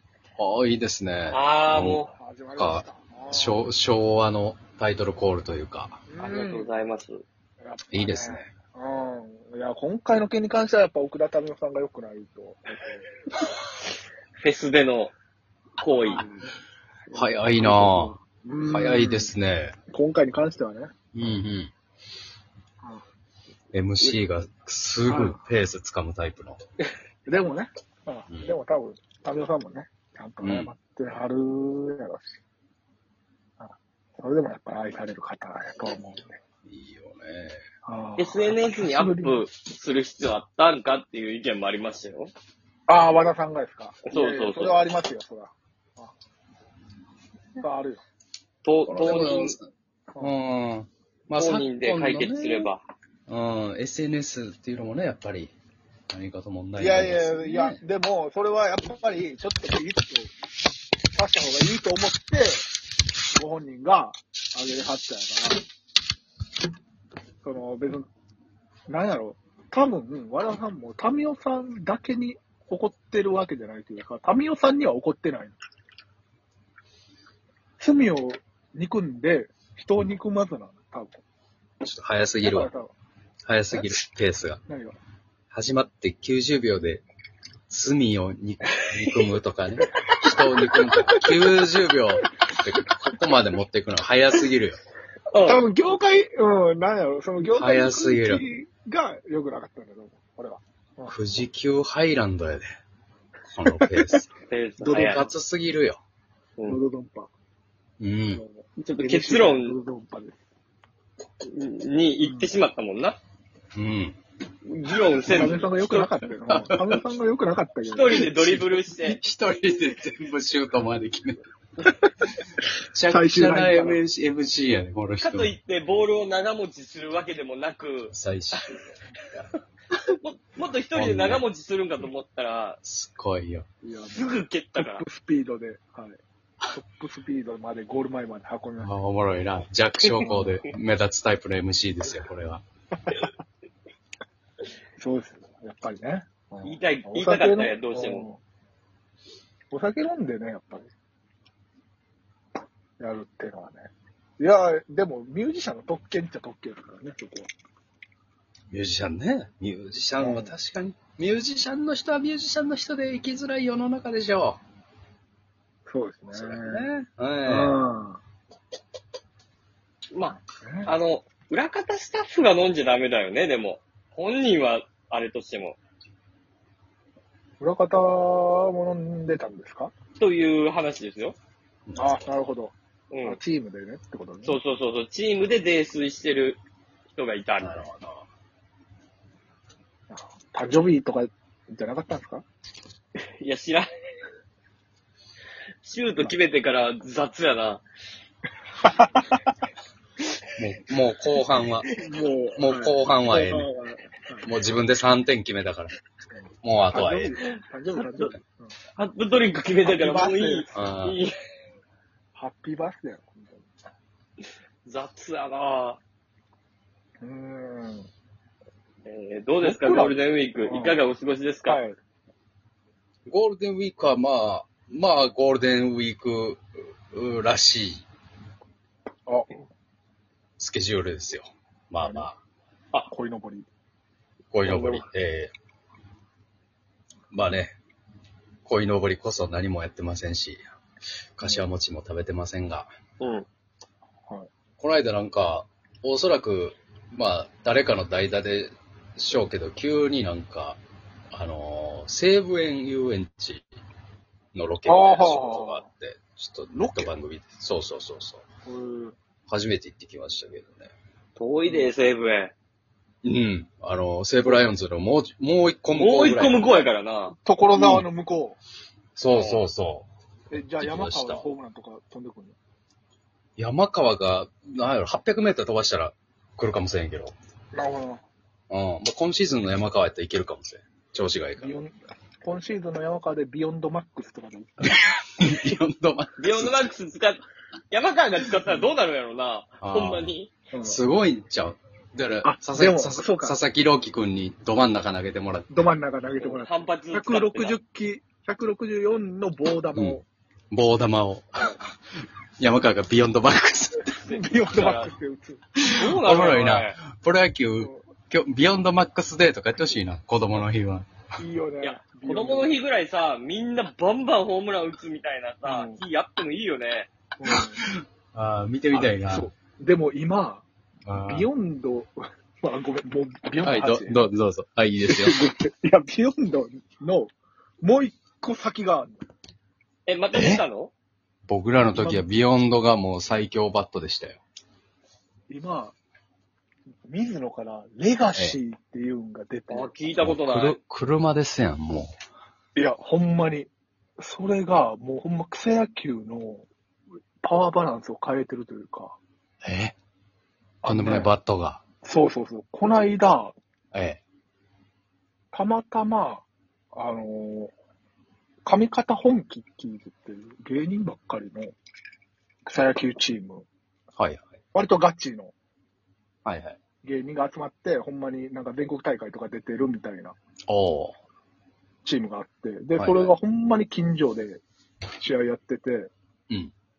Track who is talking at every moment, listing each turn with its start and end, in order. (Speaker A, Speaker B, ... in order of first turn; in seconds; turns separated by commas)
Speaker A: 0.4-2.0, Speaker B: 1.3-2.1, Speaker C: 2.1-3.7, Speaker A: 2.5-6.0, Speaker C: 6.1-6.7, Speaker B: 6.2-7.2, Speaker C: 7.6-13.1, Speaker A: 7.9-8.5, Speaker B: 14.4-15.1, Speaker B: 15.8-16.2, Speaker C: 15.9-16.5, Speaker C: 17.1-19.3, Speaker A: 17.1-19.8, Speaker C: 19.9-21.3, Speaker A: 21.1-21.7, Speaker A: 23.7-26.6, Speaker C: 25.1-25.4, Speaker C: 27.3-32.3, Speaker A: 30.4-30.7, Speaker C: 33.6-36.4, Speaker A: 36.6-37.6, Speaker C: 37.9-39.4, Speaker B: 38.2-42.3, Speaker C: 42.9-46.1, Speaker B: 44.1-44.8, Speaker C: 47.6-48.0, Speaker B: 48.6-49.6, Speaker A: 48.9-52.7, Speaker B: 51.4-52.8, Speaker A: 53.3-55.5, Speaker A: 56.1-57.8, Speaker C: 56.8-60.3, Speaker C: 61.1-62.6, Speaker C: 63.4-65.6, Speaker C: 67.4-68.1, Speaker C: 68.9-75.6, Speaker C: 77.8-81.2, Speaker A: 81.8-82.7, Speaker C: 82.4-82.9, Speaker A: 83.5-84.6, Speaker C: 84.7-85.0, Speaker A: 85.5-87.0, Speaker A: 87.7-94.8, Speaker C: 90.3-91.6, Speaker B: 95.3-95.7, Speaker C: 95.4-101.2, Speaker A: 97.5-98.5, Speaker A: 101.1-102.7, Speaker A: 103.5-104.3, Speaker B: 104.5-105.2, Speaker C: 104.8-105.3, Speaker A: 104.9-106.0, Speaker C: 106.7-107.3, Speaker A: 108.0-108.4, Speaker C: 108.3-110.4, Speaker B: 108.8-109.8, Speaker B: 111.5-113.2, Speaker C: 112.2-112.5, Speaker A: 113.8-114.2, Speaker B: 114.7-116.1, Speaker C: 115.3-118.4, Speaker A: 116.5-117.0, Speaker B: 117.9-119.2, Speaker A: 118.2-121.4, Speaker A: 122.9-125.5, Speaker C: 123.1-124.0, Speaker B: 125.2-128.1, Speaker A: 128.1-128.7, Speaker B: 130.1-132.8, Speaker A: 130.9-131.4, Speaker A: 132.8-133.7, Speaker C: 133.8-136.2, Speaker B: 134.1-135.0, Speaker C: 136.7-138.9, Speaker A: 138.8-142.6, Speaker C: 140.1-140.5, Speaker C: 145.0-148.4, Speaker B: 146.6-148.2, Speaker C: 149.7-150.9, Speaker C: 153.0-157.5, Speaker A: 158.7-164.6, Speaker C: 160.2-160.5, Speaker C: 165.9-166.9, Speaker A: 166.3-167.8, Speaker C: 167.4-168.2, Speaker B: 170.1-175.8, Speaker C: 170.6-170.9, Speaker C: 177.6-179.9, Speaker B: 180.2-181.4, Speaker A: 181.9-182.2, Speaker C: 182.0-184.6, Speaker B: 183.1-183.4, Speaker B: 184.4-186.6, Speaker B: 187.1-187.8, Speaker A: 187.6-188.2, Speaker C: 190.1-192.4, Speaker B: 193.4-193.8, Speaker B: 195.8-197.8, Speaker C: 198.8-199.3, Speaker A: 200.6-201.9, Speaker C: 201.9-204.5, Speaker A: 202.6-203.7, Speaker A: 204.4-205.9, Speaker C: 206.4-208.7, Speaker A: 206.6-207.4, Speaker B: 207.4-208.3, Speaker B: 209.0-211.3, Speaker C: 209.8-210.8, Speaker A: 210.7-211.2, Speaker C: 212.3-213.7, Speaker B: 214.8-216.0, Speaker C: 217.2-218.1, Speaker B: 219.1-221.8, Speaker C: 219.6-221.0, Speaker C: 221.7-221.9, Speaker A: 223.3-228.0, Speaker C: 229.3-229.6, Speaker A: 230.6-232.4, Speaker C: 232.0-232.3, Speaker C: 233.1-233.7, Speaker A: 234.5-235.5, Speaker B: 234.7-235.0, Speaker A: 237.3-237.8, Speaker A: 238.7-240.6, Speaker A: 241.4-242.9, Speaker B: 243.2-243.5, Speaker A: 244.8-250.8, Speaker A: 251.3-253.7, Speaker A: 254.6-258.4, Speaker C: 254.9-255.8, Speaker C: 256.7-257.1, Speaker C: 258.7-259.1, Speaker A: 259.5-260.9, Speaker B: 261.4-262.5, Speaker C: 261.7-261.9, Speaker A: 263.2-266.7, Speaker C: 264.4-264.8, Speaker B: 265.9-267.4, Speaker C: 267.4-268.6, Speaker A: 267.8-268.1, Speaker A: 269.2-270.1, Speaker B: 269.3-269.7, Speaker C: 270.5-272.6, Speaker A: 270.7-271.4, Speaker A: 273.6-277.3, Speaker C: 277.7-278.2, Speaker A: 278.7-281.8, Speaker C: 281.6-285.0, Speaker A: 284.8-286.9, Speaker B: 286.4-290.5, Speaker C: 288.7-288.9, Speaker A: 289.8-290.3, Speaker C: 290.7-291.0, Speaker A: 290.8-295.7, Speaker C: 292.4-293.6, Speaker C: 295.7-300.2, Speaker B: 296.4-297.8, Speaker A: 300.7-301.7, Speaker A: 302.6-304.2, Speaker B: 304.2-305.1, Speaker C: 304.3-305.8, Speaker A: 305.9-311.1, Speaker B: 305.9-307.0, Speaker C: 311.4-312.8, Speaker B: 311.8-317.1, Speaker C: 315.6-316.0, Speaker C: 317.4-317.8, Speaker A: 317.5-319.5, Speaker C: 318.9-320.6, Speaker A: 321.1-321.5, Speaker C: 321.3-324.2, Speaker A: 323.6-325.4, Speaker C: 325.1-329.2, Speaker B: 330.1-330.9, Speaker A: 330.3-330.6, Speaker A: 331.5-334.4, Speaker C: 331.9-332.3, Speaker C: 335.5-335.9, Speaker C: 337.1-340.2, Speaker B: 339.7-340.8, Speaker A: 340.2-342.1, Speaker C: 342.8-346.7, Speaker C: 347.4-349.2, Speaker A: 349.6-349.9, Speaker C: 350.8-351.3, Speaker A: 350.9-351.8, Speaker C: 352.0-353.5, Speaker A: 353.9-354.2, Speaker C: 355.5-357.7, Speaker C: 358.7-361.8, Speaker C: 362.7-363.7, Speaker A: 364.2-364.6, Speaker C: 364.7-365.5, Speaker A: 366.4-366.8, Speaker C: 367.0-370.4, Speaker A: 370.7-371.2, Speaker C: 372.1-374.6, Speaker A: 373.0-373.3, Speaker C: 375.2-376.1